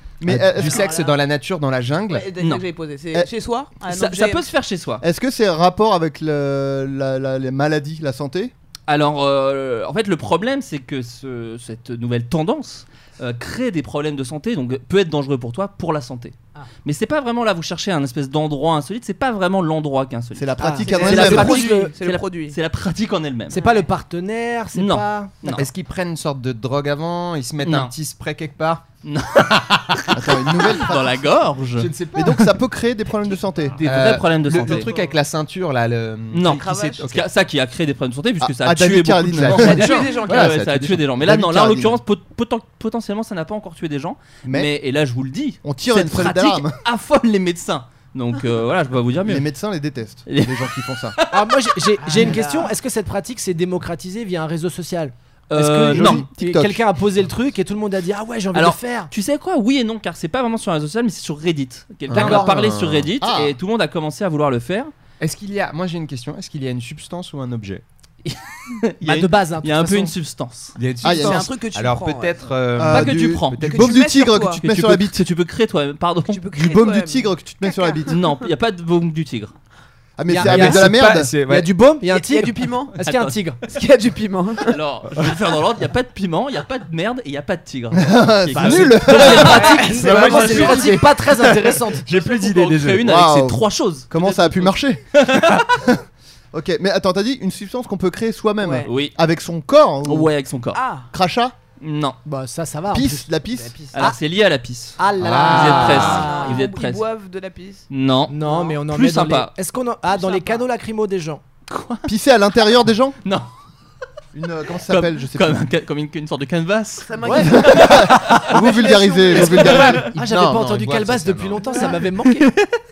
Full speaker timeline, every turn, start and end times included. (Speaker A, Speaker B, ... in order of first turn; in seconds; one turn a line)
Speaker A: 0.2-0.8
Speaker B: 0.3-2.3
Speaker C: 0.6-1.2
Speaker C: 2.1-4.5
Speaker D: 3.8-5.0
Speaker A: 5.0-8.5
Speaker D: 8.9-23.6
Speaker A: 20.4-21.6
Speaker E: 20.6-21.9
Speaker C: 20.8-22.6
Speaker E: 23.5-25.3
Speaker C: 23.5-23.9
Speaker D: 24.8-25.7
Speaker B: 25.5-28.8
Speaker D: 27.6-27.9
Speaker D: 29.0-31.9
Speaker B: 29.4-30.1
Speaker A: 30.1-31.3
Speaker B: 31.8-32.6
Speaker A: 32.1-33.8
Speaker D: 33.8-34.9
Speaker B: 33.8-37.3
Speaker C: 34.7-35.1
Speaker D: 36.3-49.5
Speaker C: 36.5-37.0
Speaker A: 38.4-40.0
Speaker B: 39.4-41.1
Speaker C: 39.8-40.5
Speaker A: 41.2-42.0
Speaker A: 44.5-44.7
Speaker A: 45.6-46.8
Speaker A: 49.2-51.2
Speaker D: 50.3-51.7
Speaker E: 51.3-59.1
Speaker C: 52.0-52.7
Speaker D: 55.5-56.3
Speaker A: 55.9-56.8
Speaker D: 58.5-64.9
Speaker B: 62.1-63.1
Speaker E: 62.1-62.5
Speaker A: 63.2-63.6
Speaker B: 65.2-67.8
Speaker D: 68.2-70.8
Speaker E: 69.0-70.1
Speaker B: 70.8-74.0
Speaker A: 71.0-71.5
Speaker C: 71.0-72.4
Speaker A: 72.8-75.2
Speaker D: 72.9-73.7
Speaker C: 73.7-74.6
Speaker D: 74.6-76.5
Speaker C: 76.3-78.2
Speaker A: 76.5-78.2
Speaker D: 78.1-79.5
Speaker A: 80.2-81.3
Speaker E: 80.3-83.6
Speaker B: 80.4-81.8
Speaker C: 82.1-83.0
Speaker D: 83.0-83.4
Speaker C: 83.7-84.8
Speaker D: 84.6-90.9
Speaker A: 87.9-89.8
Speaker E: 88.5-92.0
Speaker C: 89.4-90.9
Speaker B: 90.0-93.0
Speaker D: 92.1-95.8
Speaker A: 93.0-95.2
Speaker A: 96.5-100.3
Speaker C: 98.6-98.9
Speaker D: 98.9-99.2
Speaker D: 100.0-100.8
Speaker C: 100.7-101.1
Speaker A: 101.1-101.5
Speaker D: 101.8-102.2
Speaker E: 102.3-103.3
Speaker A: 102.9-103.8
Speaker D: 103.9-107.0
Speaker E: 105.0-106.6
Speaker B: 105.2-106.3
Speaker C: 105.9-107.9
Speaker D: 107.9-108.4
Speaker E: 108.3-111.4
Speaker C: 108.4-108.8
Speaker D: 108.9-109.5
Speaker C: 110.1-110.7
Speaker D: 111.7-112.1
Speaker A: 112.1-113.2
Speaker A: 114.3-115.6
Speaker D: 114.9-118.5
Speaker C: 117.1-119.9
Speaker E: 117.2-117.5
Speaker A: 117.3-120.1
Speaker D: 119.3-120.1
Speaker B: 120.0-121.6
Speaker E: 120.0-122.5
Speaker C: 121.7-122.0
Speaker D: 122.2-122.8